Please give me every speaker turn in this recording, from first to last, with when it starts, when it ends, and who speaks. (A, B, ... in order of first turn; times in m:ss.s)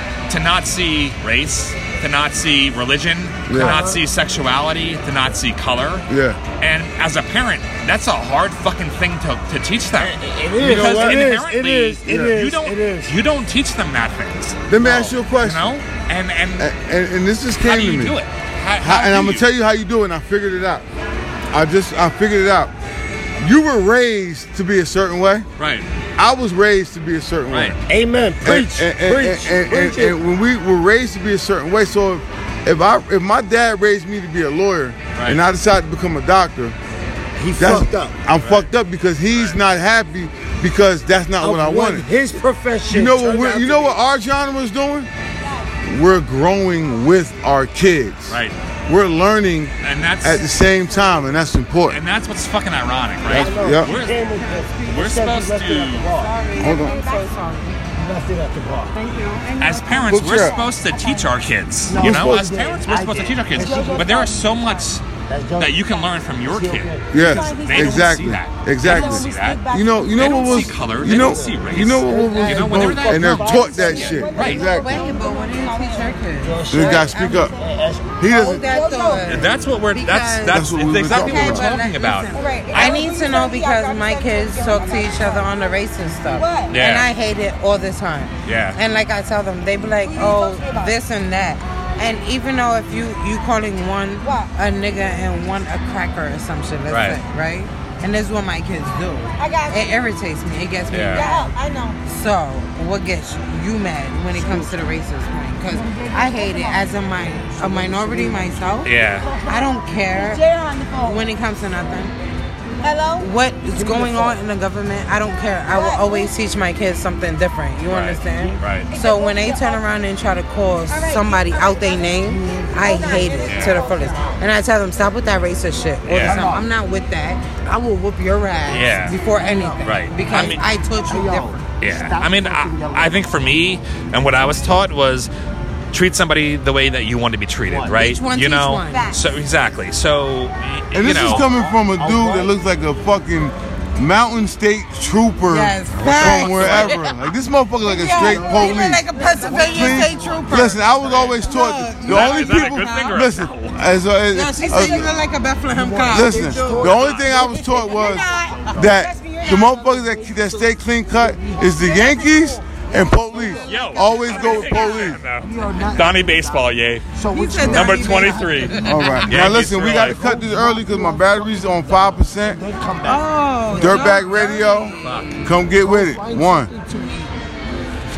0:00.3-0:06.0 A
0:03.5-0:03.8 B
0:03.5-0:04.0 C
0:06.1-0:06.4 B
0:06.6-0:16.7 A
0:09.9-0:13.1 C
0:10.6-0:11.3 B
0:12.0-0:12.4 B
0:14.7-0:15.7 B
0:16.6-0:18.2 B
0:17.6-0:19.5 A
0:18.8-0:20.8 B
0:21.5-0:22.7 B
0:23.4-0:25.5 B
0:25.6-0:25.9 A
0:26.2-0:27.8 B
0:27.5-0:27.8 A
0:27.9-0:30.2 C
0:28.4-0:36.8 B
0:35.2-0:35.4 A
0:37.4-0:38.2 C
0:37.6-0:42.1 B
0:38.3-0:38.7 A
0:39.3-0:39.6 A
0:41.4-0:44.0 C
0:42.9-0:45.1 B
0:45.8-0:52.0 B
0:48.3-0:48.6 A
0:49.8-0:50.5 A
0:51.9-0:56.1 A
0:53.3-0:53.9 B
0:53.3-0:56.3 C
0:54.3-0:54.8 D
0:56.2-0:57.8 D
0:56.4-0:57.4 E
0:56.6-0:57.0 B
0:58.0-0:59.0 C
0:58.9-0:59.6 D
0:59.0-1:01.4 E
0:59.6-1:05.0 A
1:00.1-1:00.6 B
1:01.8-1:04.2 C
1:01.9-1:02.5 B
1:03.5-1:04.9 E
1:05.3-1:05.8 C
1:05.6-1:14.7 A
1:06.5-1:07.2 C
1:07.1-1:15.0 B
1:07.2-1:08.2 E
1:08.8-1:09.2 C
1:09.0-1:10.8 E
1:10.8-1:14.2 C
1:13.6-1:17.7 E
1:14.4-1:16.7 D
1:16.4-1:18.2 C
1:16.7-1:17.5 B
1:18.2-1:18.6 B
1:18.2-1:50.4 D
1:18.5-1:19.4 E
1:19.2-1:23.0 A
1:20.5-1:21.7 B
1:22.3-1:26.8 E
1:26.7-1:27.1 A
1:28.4-1:28.8 A
1:30.0-1:31.0 E
1:34.2-1:34.6 E
1:36.9-1:37.2 A
1:39.4-1:40.0 E
1:40.9-1:41.3 A
1:41.1-1:42.0 E
1:44.3-1:44.7 C
1:45.8-1:46.5 C
1:45.9-1:46.9 E
1:47.5-1:48.9 C
1:48.8-1:49.3 A
1:49.2-1:51.2 E
1:51.0-1:52.1 D
1:52.8-1:53.3 E
1:53.1-2:11.6 D
1:53.7-1:54.4 C
1:55.7-1:56.4 E
1:57.9-1:58.9 A
1:58.9-1:59.9 E
2:00.9-2:04.5 E
2:02.3-2:02.9 C
2:03.4-2:03.8 A
2:06.1-2:06.4 A
2:06.2-2:06.7 C
2:08.7-2:09.2 A
2:09.4-2:09.8 C
2:09.8-2:10.6 A
2:11.1-2:13.2 C
2:11.8-2:15.3 A
2:15.9-2:21.5 A
2:17.6-2:18.0 C
2:18.0-2:19.2 D
2:20.9-2:35.1 B
2:21.1-2:22.6 C
2:25.4-2:27.1 D
2:26.2-2:26.9 A
2:27.8-2:30.8 D
2:28.2-2:28.7 C
2:28.4-2:30.2 E
2:29.2-2:30.4 C
2:31.0-2:31.4 A
2:31.4-2:33.2 D
2:32.0-2:33.8 A
2:34.3-2:38.7 D
2:35.7-2:37.6 C
2:36.1-2:45.2 B
2:36.8-2:37.4 A
2:37.6-2:40.2 E
2:38.2-2:38.9 C
2:40.2-2:41.8 C
2:41.6-2:44.7 E
2:43.6-2:47.1 A
2:43.8-2:45.0 D
2:45.4-2:46.6 C
2:47.1-2:54.2 C
2:47.3-2:49.4 D
2:47.6-2:50.2 A
2:48.8-2:52.6 B
2:53.0-2:54.8 D
2:53.7-2:56.7 B
2:55.0-2:55.3 A
2:55.8-2:57.3 C